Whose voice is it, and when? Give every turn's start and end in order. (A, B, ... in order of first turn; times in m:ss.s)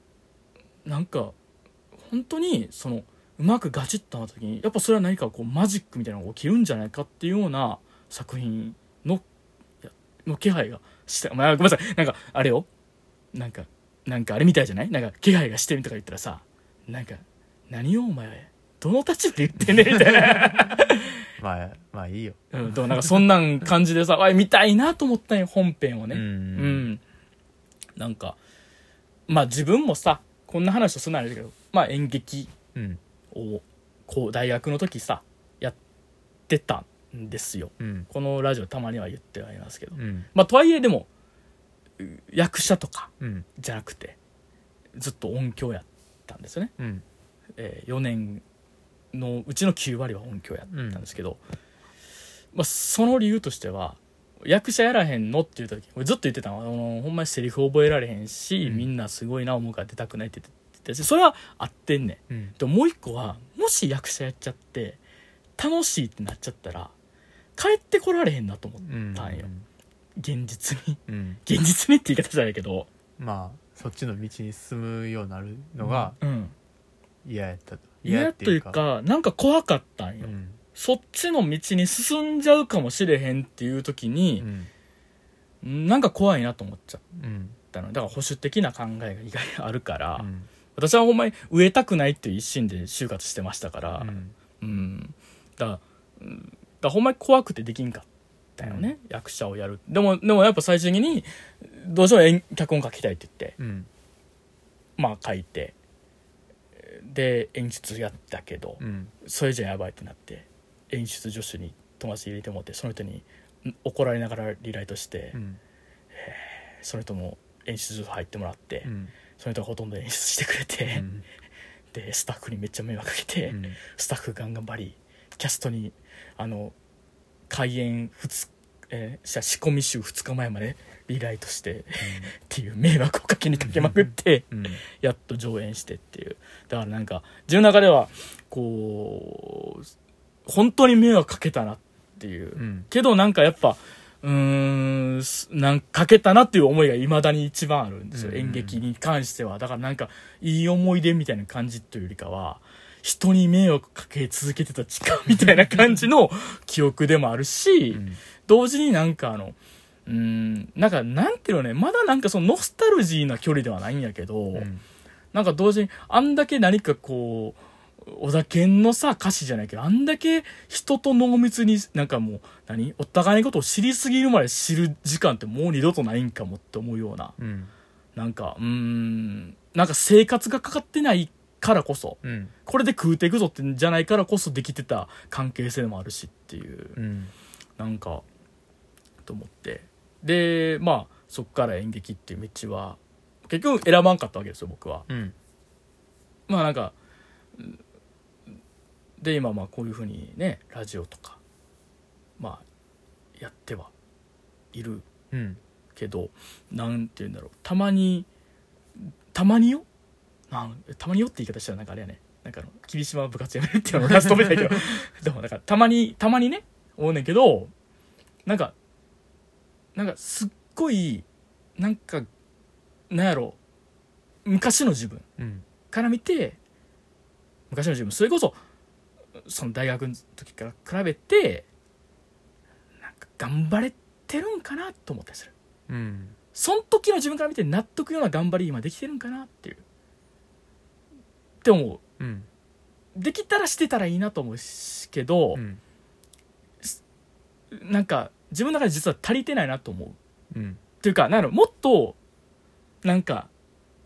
0:00.8-0:01.3 A
0:02.0-0:09.2 A
0:09.8-0:12.7 A
0:13.3-0:21.1 A
0:20.2-0:20.4 B
0:21.4-0:23.2 B
0:22.5-0:27.0 A
0:26.1-0:26.9 B
0:28.0-0:28.4 A
0:29.3-0:32.5 A
0:32.7-0:33.0 B
0:33.3-0:35.8 A
0:36.5-0:41.1 A
0:37.8-0:38.1 B
0:39.9-0:40.3 B
0:42.0-0:44.2 A
0:43.2-0:43.4 B
0:44.9-0:46.7 A
0:46.8-0:47.0 B
0:47.6-0:48.4 A
0:49.1-0:51.4 A
0:50.7-0:51.0 B
0:52.5-1:05.0 A
0:58.6-0:58.9 B
1:02.3-1:02.6 B
1:05.6-1:06.9 A
1:07.6-1:09.5 A
1:08.8-1:09.6 B
1:10.2-1:12.9 A
1:11.1-1:11.4 B
1:13.2-1:16.2 B
1:15.8-1:16.5 A
1:17.2-1:18.8 B
1:18.0-1:24.5 A
1:20.2-1:20.6 B
1:24.4-1:24.7 B
1:25.6-1:27.0 A
1:27.1-1:27.6 B
1:27.7-1:38.0 A
1:30.2-1:30.5 B
1:34.0-1:34.3 B
1:38.6-1:43.6 A
1:38.6-1:38.9 B
1:43.6-1:43.9 B
1:45.0-1:45.7 A
1:46.8-1:55.4 A
1:48.8-1:49.1 B
1:55.3-1:55.6 B
1:56.1-2:01.0 A
1:58.8-1:59.1 B
2:00.9-2:01.2 B
2:01.9-2:06.7 A
2:03.5-2:03.8 B
2:07.5-2:19.9 A
2:12.0-2:12.3 B
2:13.6-2:14.8 B
2:20.4-2:39.6 A
2:22.6-2:22.9 B
2:28.1-2:28.8 B
2:37.9-2:38.2 B
2:40.1-2:44.7 A
2:44.5-2:44.8 B
2:45.3-2:57.3 A
2:57.4-2:57.7 B
2:58.2-3:07.0 A
3:02.2-3:02.5 B
3:07.0-3:07.3 B
3:07.8-3:08.2 A
3:09.2-3:15.0 A
3:15.1-3:15.3 B
3:16.5-3:16.9 A
3:19.2-3:21.4 A
3:22.4-3:22.6 A
3:23.4-3:23.9 A
3:24.7-3:25.0 A
3:25.3-3:25.6 B
3:25.9-3:28.3 A
3:29.0-3:29.9 A
3:30.5-3:37.7 A
3:34.1-3:34.7 B
3:38.4-3:38.7 A
3:39.9-3:41.2 A
3:41.8-3:42.3 A
3:43.1-3:43.6 A
3:44.4-3:45.2 A
3:45.4-3:45.6 B
3:45.9-3:46.6 A
3:47.7-3:48.6 A
3:49.4-3:51.6 A
3:53.0-3:55.5 A
3:55.9-3:56.4 B
3:56.5-3:59.8 A
4:01.6-4:02.0 A
4:02.2-4:02.5 B
4:03.1-4:05.6 A
4:05.5-4:05.8 B
4:07.7-4:10.2 A
4:10.5-4:10.8 B
4:11.0-4:12.2 A
4:13.0-4:13.5 A